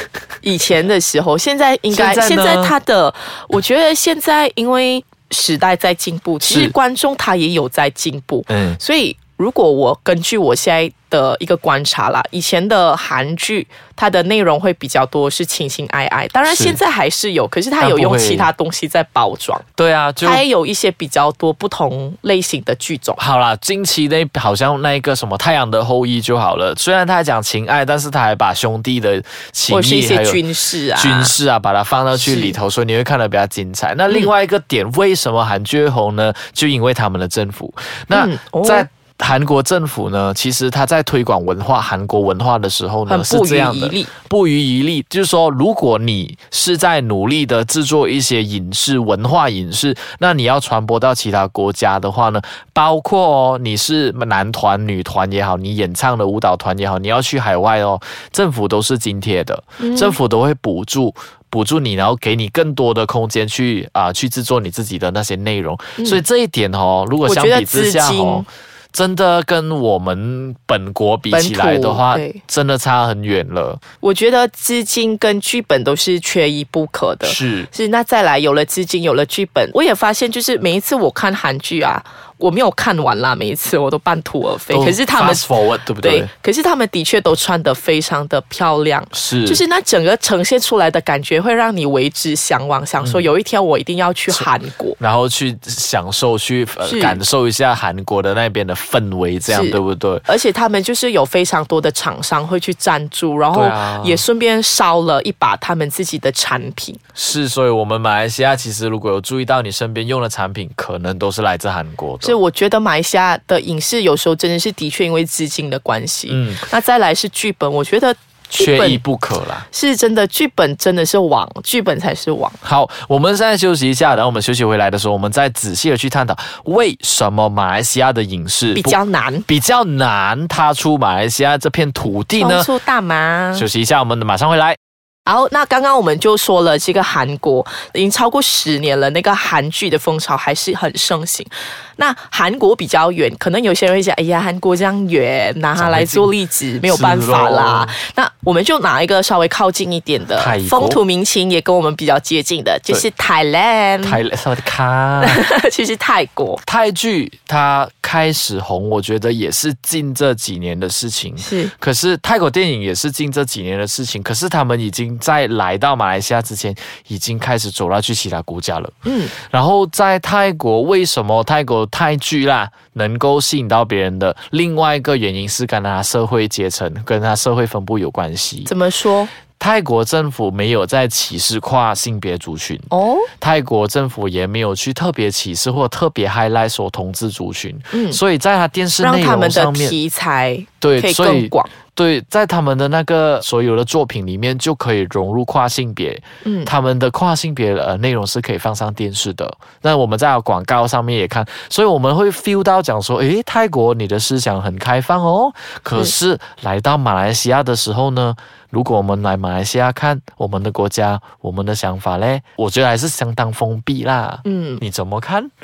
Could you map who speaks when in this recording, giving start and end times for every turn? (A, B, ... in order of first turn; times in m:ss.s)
0:00.4-0:19.6 A
0:01.9-0:02.8 B
0:06.4-0:06.7 B
0:08.5-0:08.8 B
0:16.4-0:16.8 B
0:17.8-0:18.5 B
0:19.8-0:20.4 B
0:20.2-0:23.2 A
0:23.2-1:13.8 B
0:29.7-0:31.4 A
0:32.2-0:32.6 A
0:38.1-0:38.9 A
0:43.1-0:44.1 A
0:59.8-1:00.2 A
1:06.0-1:06.2 A
1:07.2-1:08.4 A
1:11.3-1:12.4 A
1:14.0-1:35.0 A
1:17.2-1:17.7 B
1:24.7-1:26.3 B
1:29.1-1:29.6 B
1:33.0-1:33.2 B
1:34.3-1:40.2 B
1:36.8-1:37.2 A
1:39.4-1:47.0 A
1:43.5-1:44.2 B
1:47.2-1:52.4 B
1:52.2-1:59.0 A
1:56.3-1:56.6 B
1:58.6-1:59.6 B
1:59.7-2:02.6 A
2:02.6-2:12.7 B
2:08.7-2:09.5 A
2:12.4-2:13.7 A
2:13.5-2:14.8 B
2:15.2-2:34.2 A
2:25.8-2:26.3 B
2:26.8-2:28.0 B
2:30.4-2:31.0 B
2:34.0-2:35.4 B
2:35.2-2:36.6 A
2:36.6-2:58.7 B
2:41.4-2:41.7 A
2:49.0-2:49.3 A
2:58.6-2:59.3 A
2:59.6-3:10.0 B
3:02.9-3:03.3 A
3:07.9-3:08.2 A
3:09.0-3:11.7 A
3:10.8-3:35.5 B
3:16.4-3:16.7 A
3:34.4-3:34.8 A